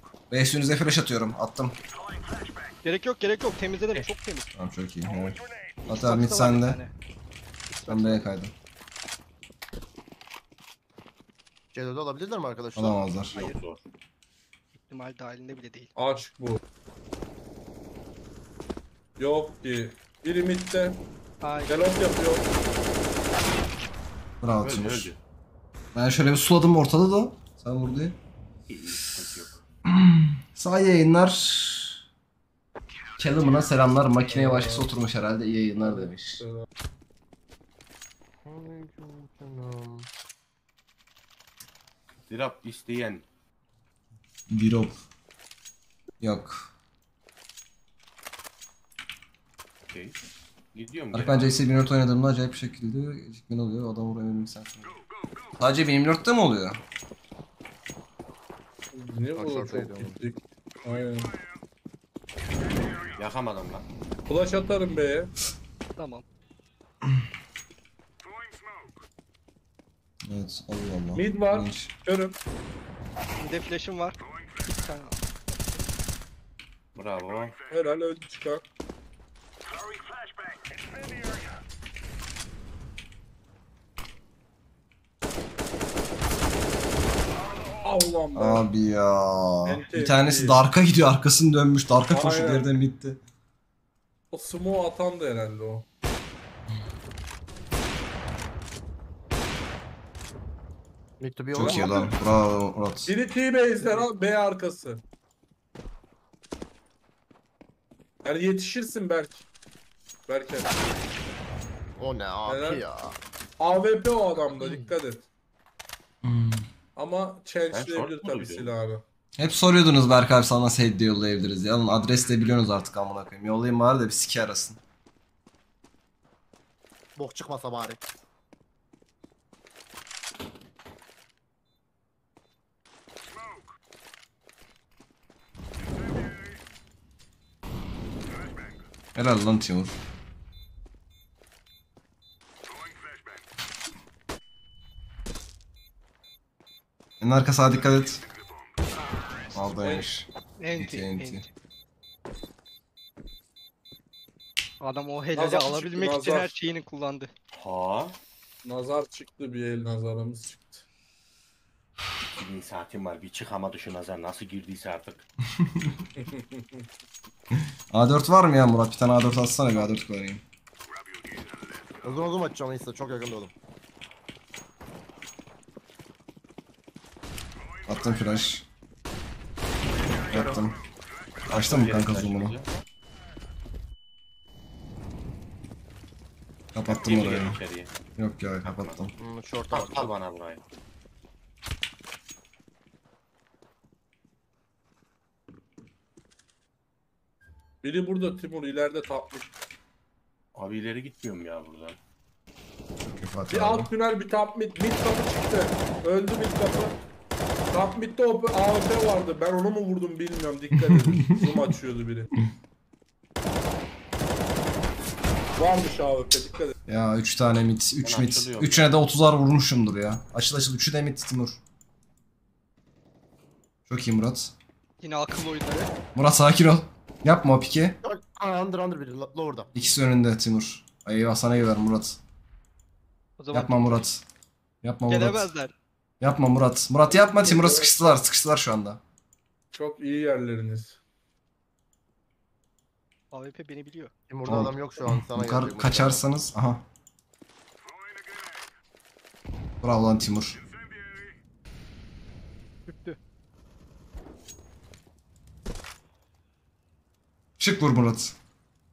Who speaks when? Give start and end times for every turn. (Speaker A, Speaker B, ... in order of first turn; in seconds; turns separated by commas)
Speaker A: 0.3-1.8, Speaker B: 2.8-4.5, Speaker A: 4.5-6.8, Speaker B: 5.9-6.9, Speaker B: 7.7-8.3, Speaker A: 7.9-8.5, Speaker C: 11.7-13.1, Speaker A: 12.8-13.3, Speaker D: 13.3-13.9, Speaker B: 14.7-15.9, Speaker E: 16.0-16.6, Speaker E: 19.2-21.0, Speaker B: 21.4-21.9, Speaker E: 21.7-22.5, Speaker A: 24.4-25.1, Speaker D: 24.6-25.2, Speaker A: 25.9-28.2, Speaker D: 28.7-29.6, Speaker A: 29.9-32.0, Speaker A: 33.2-36.4, Speaker E: 34.3-34.9, Speaker E: 35.8-36.7, Speaker C: 38.4-40.1, Speaker D: 42.3-43.2, Speaker A: 44.5-45.0, Speaker A: 46.2-46.7, Speaker D: 49.8-50.2, Speaker D: 50.7-51.6, Speaker A: 51.1-55.0, Speaker A: 55.6-56.8, Speaker E: 58.9-61.3, Speaker C: 59.4-60.2, Speaker D: 63.2-63.9, Speaker E: 64.3-65.3, Speaker B: 66.0-66.2, Speaker A: 70.2-71.9, Speaker E: 71.2-72.4, Speaker B: 73.4-75.8, Speaker D: 77.0-77.6, Speaker E: 77.7-78.6, Speaker E: 87.8-88.7, Speaker A: 88.3-93.2, Speaker E: 89.7-90.6, Speaker E: 92.1-92.7, Speaker E: 94.3-95.9, Speaker C: 101.2-102.1, Speaker A: 101.5-103.1, Speaker E: 101.6-102.2, Speaker E: 103.1-105.0, Speaker E: 108.2-109.5, Speaker E: 110.3-110.9, Speaker C: 112.0-113.2, Speaker E: 112.5-112.8, Speaker E: 113.6-115.3, Speaker B: 114.6-114.9, Speaker A: 116.2-116.7, Speaker E: 117.0-119.0, Speaker D: 117.7-118.7, Speaker A: 119.4-124.8, Speaker C: 127.2-128.0, Speaker A: 139.2-140.0, Speaker A: 147.2-148.2, Speaker A: 149.5-151.4, Speaker E: 149.8-150.1, Speaker B: 150.6-151.5, Speaker B: 154.8-157.3, Speaker E: 155.3-156.6, Speaker D: 157.5-158.2, Speaker E: 158.6-160.8, Speaker D: 162.3-165.3, Speaker A: 165.6-165.9, Speaker E: 166.2-166.8, Speaker A: 167.9-170.4, Speaker C: 172.0-173.5, Speaker A: 177.9-178.7, Speaker A: 180.3-180.8, Speaker C: 180.3-180.6, Speaker D: 181.5-182.7, Speaker A: 181.5-182.6, Speaker A: 186.7-187.6, Speaker D: 186.9-187.9, Speaker A: 188.2-189.1, Speaker D: 188.6-189.1, Speaker C: 189.2-190.1, Speaker D: 189.7-190.6, Speaker E: 197.8-199.5, Speaker D: 200.5-202.0, Speaker A: 203.1-203.9, Speaker E: 203.5-207.0, Speaker E: 207.7-212.3, Speaker E: 215.6-216.7, Speaker A: 216.9-221.6, Speaker D: 218.0-218.9, Speaker A: 223.9-224.5, Speaker B: 225.0-225.9, Speaker A: 226.2-228.0, Speaker C: 228.0-229.7, Speaker A: 229.7-232.2, Speaker B: 233.4-234.1, Speaker A: 233.5-234.2, Speaker A: 234.8-235.5, Speaker B: 235.1-235.8, Speaker A: 236.2-239.0, Speaker E: 237.1-237.9, Speaker E: 239.7-241.0, Speaker B: 243.3-244.1, Speaker C: 244.3-246.2, Speaker A: 244.5-246.8, Speaker A: 249.8-250.6, Speaker B: 252.9-253.2, Speaker A: 257.6-258.4